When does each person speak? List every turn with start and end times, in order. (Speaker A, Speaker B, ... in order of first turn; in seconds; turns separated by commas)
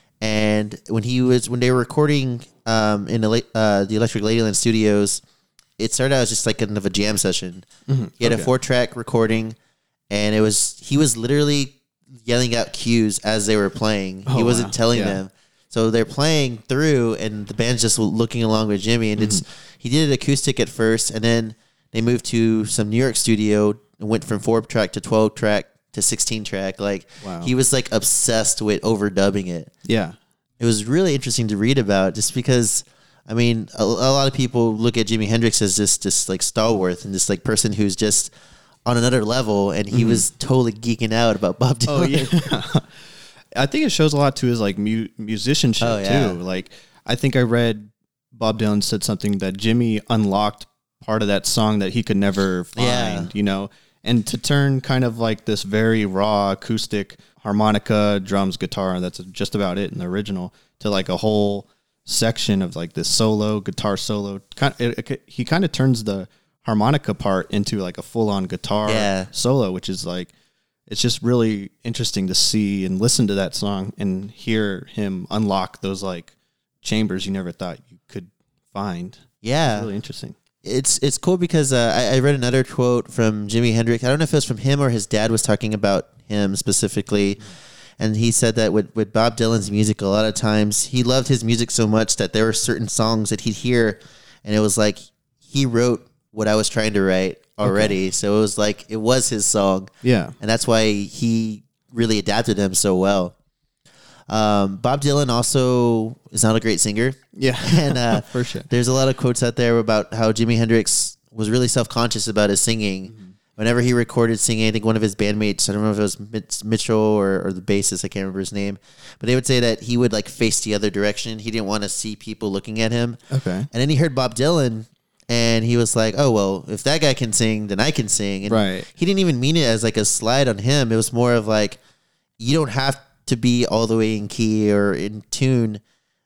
Speaker A: 0.2-5.2, Speaker A: 5.8-7.7, Speaker B: 7.9-8.5, Speaker A: 8.2-9.6, Speaker A: 10.1-29.7, Speaker B: 14.3-15.2, Speaker B: 19.2-19.4, Speaker B: 27.2-27.5, Speaker B: 29.8-30.1, Speaker A: 30.6-38.3, Speaker A: 38.9-42.3, Speaker B: 39.9-40.2, Speaker B: 41.9-70.3, Speaker A: 45.8-46.4, Speaker A: 52.8-53.3, Speaker A: 68.8-69.3, Speaker B: 70.9-80.3, Speaker A: 79.4-79.9, Speaker A: 80.6-87.4, Speaker A: 88.0-103.3, Speaker B: 97.6-97.9, Speaker B: 100.0-100.3, Speaker A: 104.3-123.2, Speaker B: 107.3-108.7, Speaker B: 123.3-123.7, Speaker A: 123.7-131.8, Speaker B: 128.5-128.9, Speaker A: 132.4-135.8